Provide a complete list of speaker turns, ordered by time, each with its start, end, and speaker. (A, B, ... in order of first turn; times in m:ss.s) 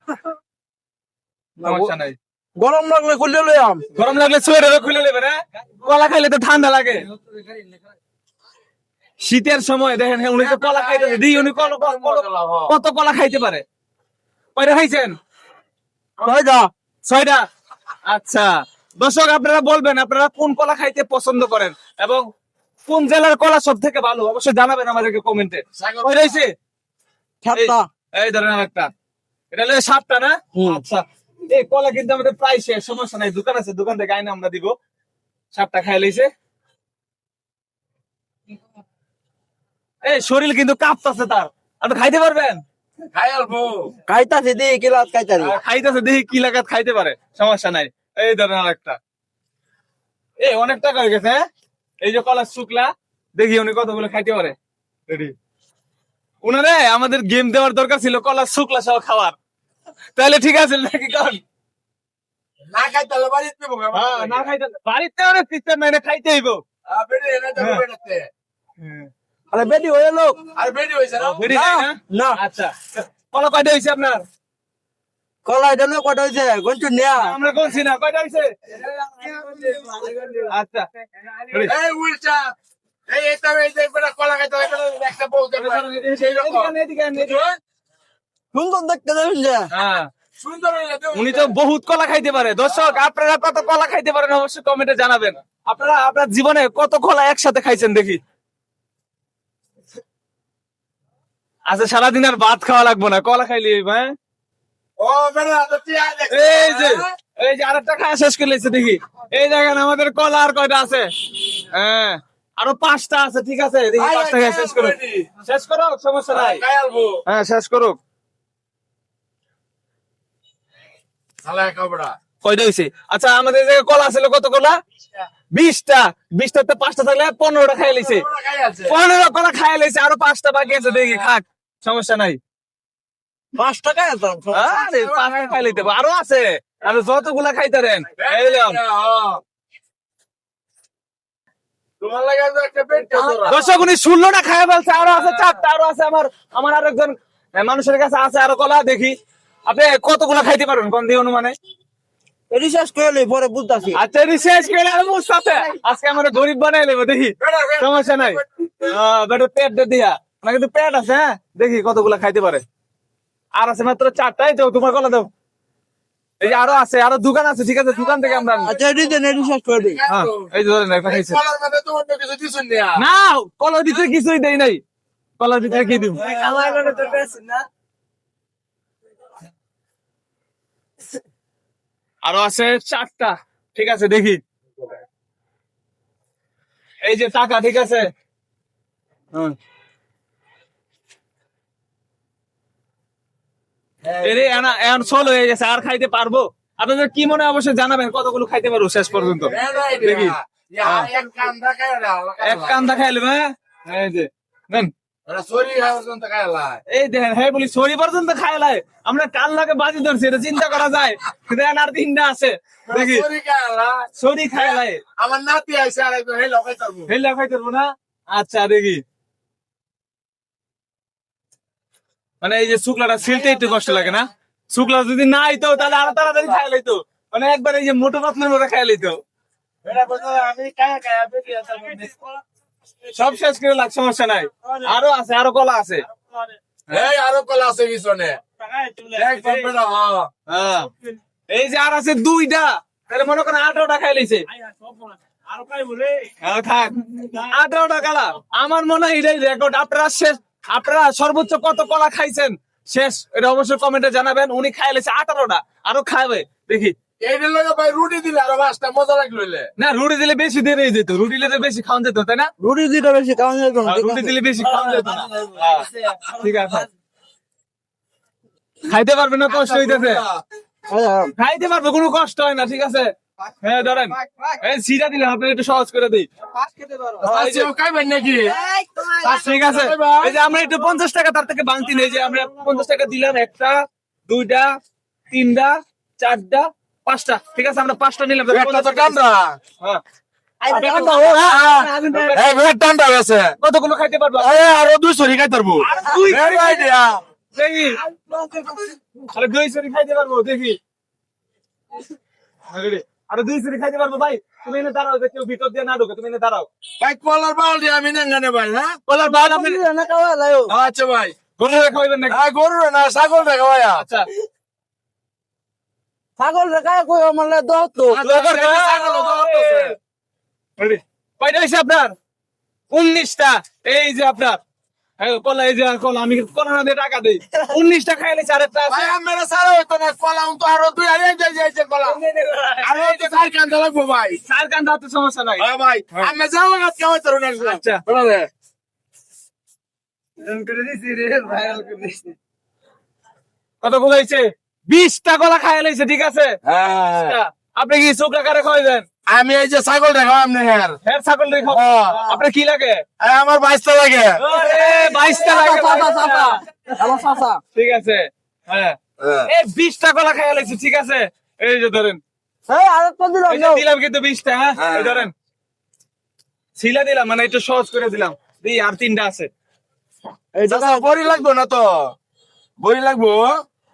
0:01.6-0:02.0 A
0:01.6-0:02.2 B
0:02.6-0:03.9 A
0:04.0-0:07.1 B
0:09.2-0:13.6 B
0:10.4-0:12.7 C
0:14.6-0:15.2 B
0:16.2-0:16.7 A
0:17.1-0:17.4 B
0:18.1-0:22.2 B
0:22.9-0:26.5 B
0:25.8-0:26.4 C
0:27.4-0:27.9 A
0:27.5-0:28.9 B
0:29.5-0:34.8 B
0:30.6-0:30.8 A
0:35.5-0:36.3 B
0:40.0-0:42.6 B
0:43.1-0:43.9 C
0:44.1-0:45.6 A
0:45.4-0:49.0 B
0:50.4-0:51.4 B
0:52.0-0:54.6 B
0:55.1-0:55.3 B
0:56.4-0:59.4 B
1:00.2-1:01.4 B
1:02.7-1:04.5 C
1:03.9-1:06.6 B
1:06.9-1:08.3 C
1:07.6-1:07.8 B
1:08.8-1:09.1 B
1:09.5-1:10.4 A
1:10.5-1:11.5 C
1:11.4-1:14.2 B
1:11.4-1:12.4 A
1:15.5-1:17.4 A
1:17.2-1:18.8 B
1:20.5-1:20.9 B
1:21.6-1:22.5 C
1:23.1-1:27.6 C
1:25.6-1:27.4 B
1:28.5-1:29.7 A
1:29.7-1:30.1 B
1:30.4-1:31.5 C
1:31.1-1:38.2 B
1:32.6-1:33.0 C
1:41.7-1:44.1 B
1:45.0-1:47.1 C
1:46.3-1:56.6 B
1:54.0-1:55.3 C
1:56.3-1:57.2 C
1:57.3-1:58.0 B
2:01.4-2:02.1 C
2:02.4-2:04.8 B
2:05.5-2:08.2 B
2:08.0-2:09.0 C
2:08.9-2:12.4 B
2:13.6-2:14.8 A
2:14.5-2:18.8 B
2:14.8-2:15.7 C
2:18.2-2:19.4 C
2:22.0-2:23.7 C
2:23.4-2:29.2 B
2:29.7-2:31.5 B
2:32.5-2:34.0 A
2:33.9-2:42.6 B
2:37.4-2:39.0 C
2:43.6-2:45.3 B
2:46.4-2:48.7 B
2:48.0-2:48.7 C
2:48.6-2:50.0 A
2:49.7-2:53.0 C
2:50.1-2:51.4 B
2:53.0-2:54.8 B
2:55.4-2:56.2 B
2:55.9-2:57.6 A
3:02.2-3:04.4 B
3:07.0-3:08.1 B
3:14.1-3:14.6 C
3:14.2-3:21.1 B
3:19.4-3:22.9 C
3:22.4-3:24.9 B
3:25.3-3:26.8 C
3:26.9-3:33.3 B
3:32.9-3:37.1 C
3:34.2-3:35.0 B
3:37.1-3:39.0 B
3:42.4-3:49.2 B
3:49.8-3:52.1 C
3:53.1-3:56.0 B
3:56.9-3:58.4 C
3:59.1-4:00.3 C
4:00.5-4:00.9 B
4:01.5-4:04.5 B
4:06.4-4:16.9 B
4:17.2-4:19.7 C
4:19.8-4:22.5 B
4:22.6-4:24.4 A
4:23.9-4:26.9 B
4:24.6-4:25.6 C
4:28.9-4:30.2 B
4:29.5-4:30.4 C
4:30.9-4:31.3 A
4:31.4-4:36.3 B
4:36.6-4:37.2 A
4:37.2-4:38.6 C
4:37.2-4:37.7 B
4:38.5-4:39.3 A
4:39.2-4:40.4 C
4:39.3-4:44.7 B
4:45.3-4:49.2 B
4:48.5-4:49.6 C
4:50.6-4:52.4 A
4:50.7-4:52.6 B
4:51.4-4:53.6 C
4:53.6-4:54.6 B
4:54.4-4:57.2 C
4:55.8-4:56.8 B
4:57.6-4:58.0 B
4:58.1-4:58.9 A
4:59.3-5:00.8 B
5:02.7-5:06.7 B
5:07.0-5:09.0 C
5:09.1-5:09.8 B
5:09.3-5:10.7 A
5:10.7-5:11.4 C
5:11.6-5:12.4 B
5:12.3-5:14.0 C
5:14.0-5:14.2 B
5:16.4-5:18.4 A
5:18.1-5:20.0 B
5:18.3-5:20.0 C
5:20.8-5:22.1 B
5:22.9-5:24.6 B
5:25.2-5:29.1 B
5:28.9-5:32.2 C
5:32.0-5:33.5 B
5:32.8-5:34.4 C
5:34.4-5:36.3 B
5:35.6-5:38.5 C
5:37.6-5:38.0 B
5:40.4-5:42.4 B
5:43.8-5:46.6 B
5:46.6-5:47.4 C
5:47.1-5:49.1 B
5:49.3-5:51.0 C
5:51.0-5:53.0 B
5:51.7-5:52.3 C
5:53.2-5:54.4 C
5:54.4-5:57.1 B
5:54.6-5:57.6 A
5:57.7-5:59.0 B
5:59.2-5:59.5 C
5:59.5-6:02.2 B
6:02.7-6:03.8 A
6:03.5-6:05.3 B
6:04.8-6:05.3 C
6:06.8-6:09.5 B
6:10.6-6:11.2 A
6:10.7-6:12.1 C
6:12.8-6:13.5 C